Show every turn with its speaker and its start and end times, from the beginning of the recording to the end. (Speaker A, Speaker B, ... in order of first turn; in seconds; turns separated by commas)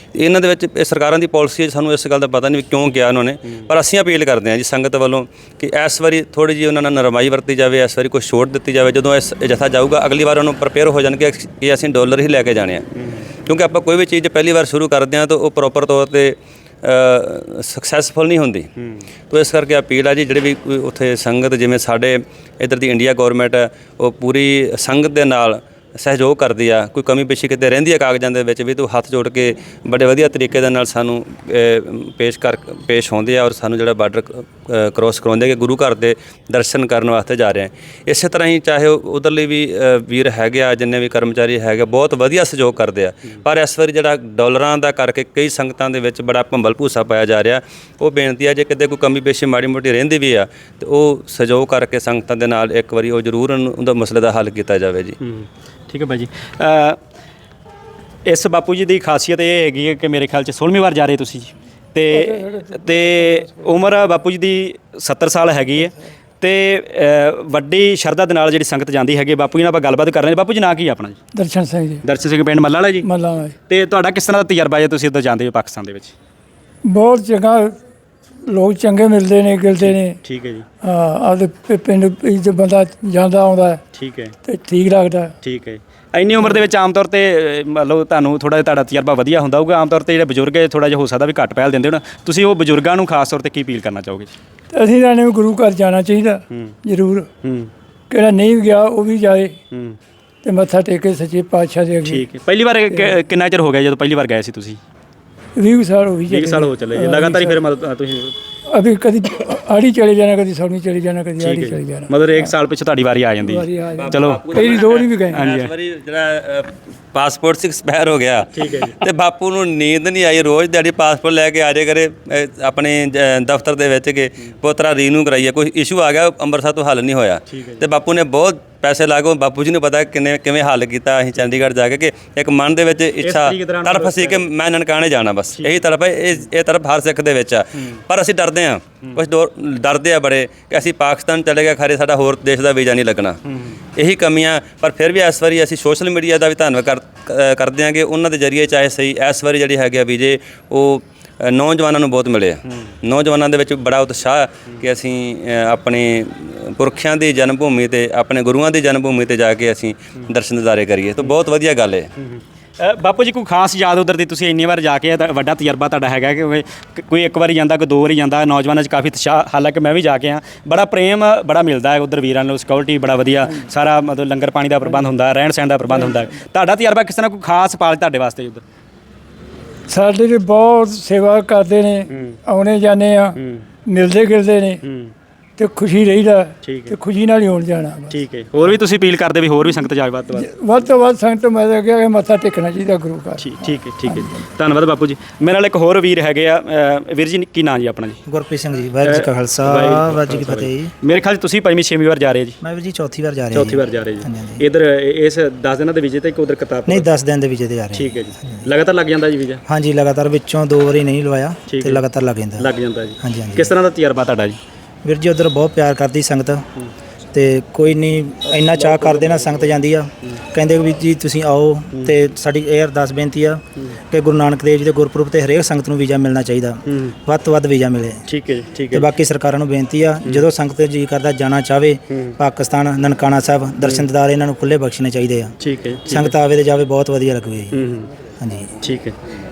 Speaker A: 0.1-12.8, Speaker A: 13.5-18.7, Speaker A: 19.3-55.2, Speaker B: 55.2-57.0, Speaker B: 58.3-71.2, Speaker C: 71.3-72.0, Speaker B: 72.0-73.1, Speaker C: 73.0-73.5, Speaker B: 73.7-76.1, Speaker C: 76.8-77.8, Speaker C: 78.5-80.2, Speaker B: 79.8-80.7, Speaker C: 80.8-83.8, Speaker B: 83.9-84.3, Speaker C: 84.5-85.3, Speaker B: 85.4-94.3, Speaker C: 94.7-97.3, Speaker B: 97.4-97.7, Speaker C: 98.1-99.6, Speaker B: 99.7-100.0, Speaker C: 100.4-102.2, Speaker B: 102.0-104.8, Speaker C: 105.6-107.6, Speaker B: 106.3-108.3, Speaker C: 108.7-112.5, Speaker B: 111.4-114.5, Speaker C: 113.4-115.4, Speaker A: 113.9-143.4, Speaker B: 115.3-115.7, Speaker B: 118.5-119.0, Speaker B: 127.5-127.9, Speaker B: 133.2-134.5, Speaker B: 143.5-143.7, Speaker A: 144.0-162.1, Speaker B: 162.3-178.6, Speaker C: 179.9-184.8, Speaker B: 182.1-182.4, Speaker B: 183.4-183.7, Speaker B: 184.8-185.1, Speaker C: 185.6-188.2, Speaker B: 186.6-187.0, Speaker B: 188.1-190.5, Speaker C: 190.3-193.8, Speaker B: 193.4-198.2, Speaker D: 198.3-200.9, Speaker B: 199.0-202.6, Speaker D: 202.6-204.6, Speaker B: 203.5-207.1, Speaker D: 206.9-208.7, Speaker B: 207.9-209.6, Speaker D: 209.7-212.7, Speaker B: 211.7-212.0, Speaker B: 212.6-214.6, Speaker D: 213.2-213.7, Speaker D: 215.0-216.6, Speaker D: 217.3-228.2, Speaker B: 218.5-220.4, Speaker B: 226.9-227.2, Speaker B: 228.3-229.1, Speaker D: 228.9-235.5, Speaker B: 232.1-232.4, Speaker B: 233.8-234.1, Speaker B: 235.6-236.3, Speaker D: 236.1-237.8, Speaker B: 237.7-238.1, Speaker D: 238.4-238.7, Speaker B: 238.8-239.2